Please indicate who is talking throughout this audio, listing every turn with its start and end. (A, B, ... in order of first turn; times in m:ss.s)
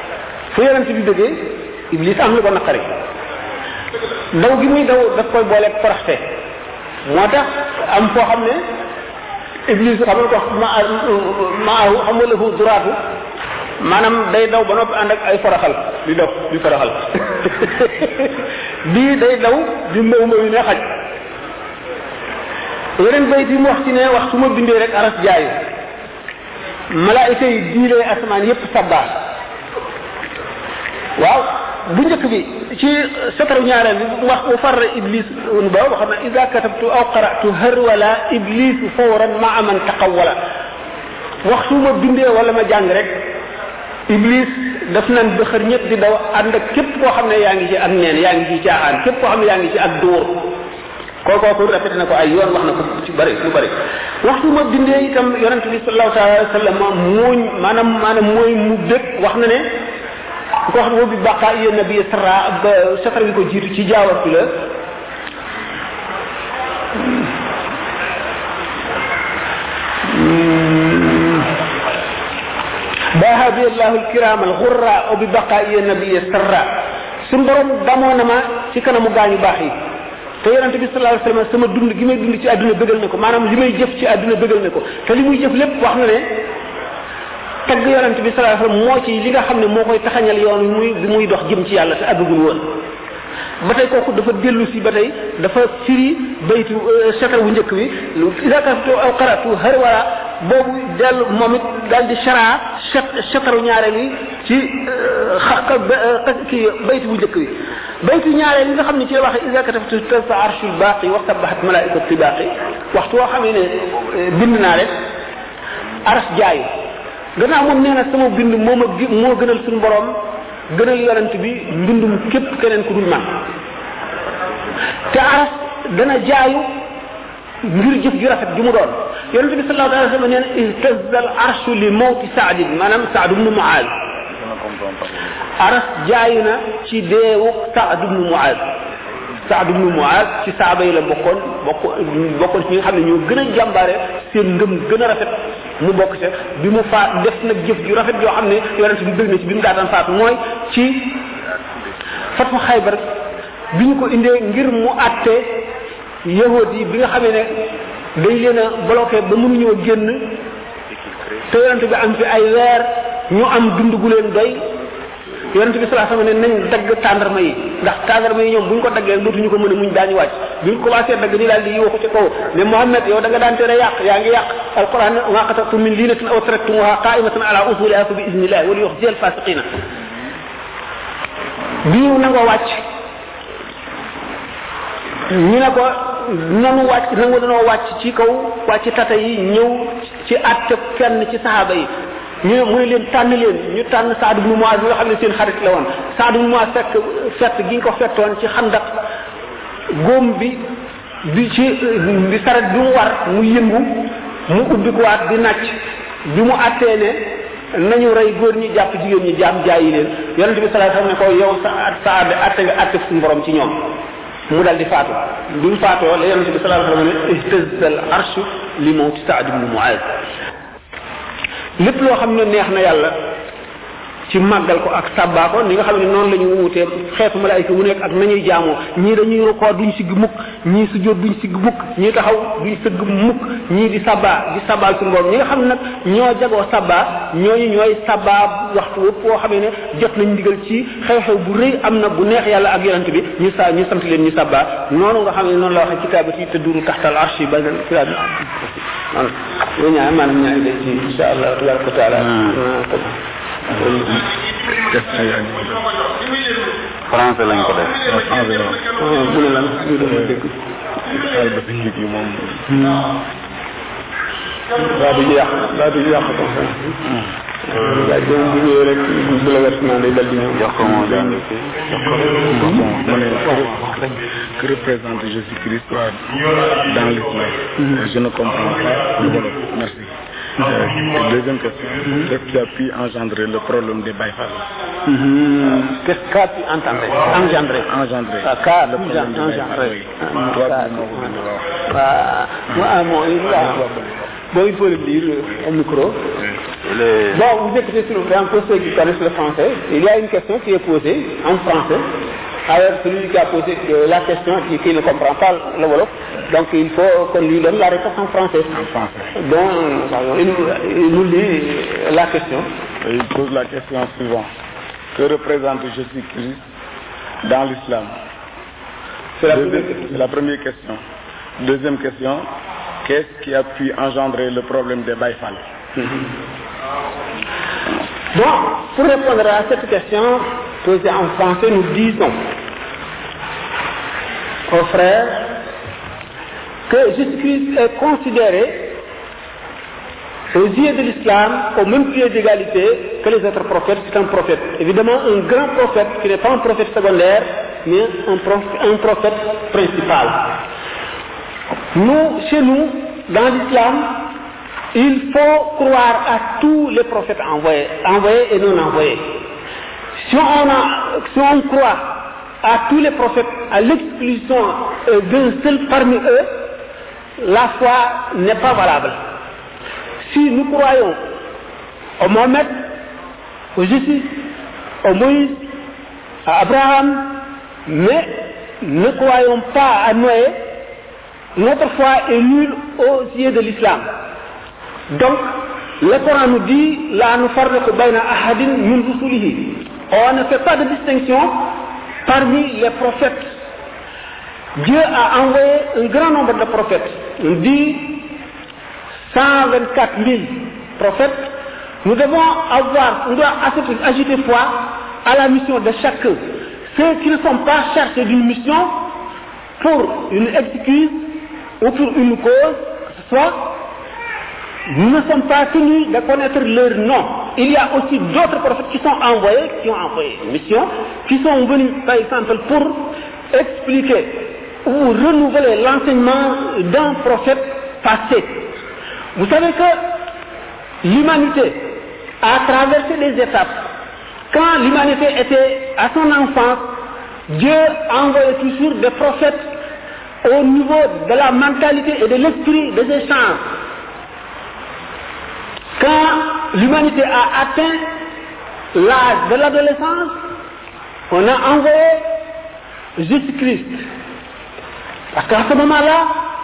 0:00.5-0:02.9 A
0:04.3-0:06.2 A
0:07.0-0:08.6 A
0:09.7-0:13.0 A
0:13.8-0:20.9 A
0:23.0-0:25.6 A
0:26.9-0:29.1 A
0:31.2-0:40.4 A
0:41.4-0:43.2 A
0:44.1-0:50.5 A
0:51.2-0:59.7 A
1:00.7-1:04.6 A
1:10.0-1:11.5 A
1:13.1-1:16.7 A
1:17.2-1:19.8 A
1:20.4-1:26.4 A
1:27.6-1:32.8 A
1:33.6-1:55.0 A
1:56.0-1:56.7 A
1:57.4-2:03.5 A
2:05.1-2:06.7 A
2:07.6-2:13.9 A
2:14.4-2:15.2 B
2:15.6-2:18.7 A
2:19.4-2:31.2 A
2:32.3-2:33.0 A
2:33.7-2:35.7 A
2:36.2-2:37.6 A
2:38.2-2:40.4 A
2:41.5-2:44.6 A
2:45.5-2:59.7 A
3:01.8-3:02.8 A
3:05.3-3:11.9 A
3:12.4-3:19.0 A
3:19.9-3:20.6 A
3:21.2-3:33.9 A
3:34.5-3:40.1 A
3:41.8-3:43.2 A
3:44.3-4:13.2 A
4:13.7-4:14.2 A
4:14.8-4:15.8 B
4:17.1-4:18.0 C
4:18.0-4:18.8 B
4:19.0-4:20.5 A
4:20.1-4:20.4 B
4:21.1-4:22.8 B
4:22.8-4:23.0 A
4:24.8-4:27.0 A
4:27.7-4:30.9 A
4:30.5-4:32.9 C
4:32.5-4:44.7 B
4:32.6-4:32.9 A
4:45.0-4:47.9 A
4:47.2-4:51.8 B
4:48.4-4:53.8 A
4:54.5-4:56.4 A
4:56.9-4:57.2 C
4:57.3-5:02.1 A
5:02.7-5:08.7 A
5:08.7-5:09.3 B
5:09.3-5:12.7 A
5:13.0-5:14.5 B
5:15.1-5:16.6 B
5:17.4-5:18.1 B
5:19.4-5:20.0 A
5:19.5-5:21.0 B
5:21.6-5:22.5 B
5:23.0-5:25.6 B
5:28.3-5:32.4 A
5:34.7-5:35.6 A
5:36.9-5:38.9 A
5:40.5-5:50.6 A
5:51.9-5:54.3 A
5:54.9-5:59.3 A
6:00.2-6:06.5 A
6:07.4-6:09.2 A
6:10.2-6:11.2 A
6:12.2-6:12.7 A
6:13.8-6:14.4 A
6:15.0-6:15.6 A
6:16.4-6:20.6 A
6:21.6-6:24.1 A
6:25.1-6:31.7 A
6:32.2-6:33.5 A
6:34.8-6:38.2 A
6:39.3-6:41.5 A
6:42.0-6:49.1 A
6:49.8-6:51.3 A
6:51.8-6:53.7 A
6:54.9-7:08.7 A
7:09.4-7:10.0 A
7:11.0-7:11.9 A
7:12.4-7:13.8 A
7:14.5-7:16.8 A
7:17.5-7:19.7 A
7:20.4-7:23.6 A
7:26.0-7:28.0 A
7:28.9-7:30.3 A
7:31.3-7:32.2 A
7:33.2-7:34.0 A
7:35.3-7:36.4 A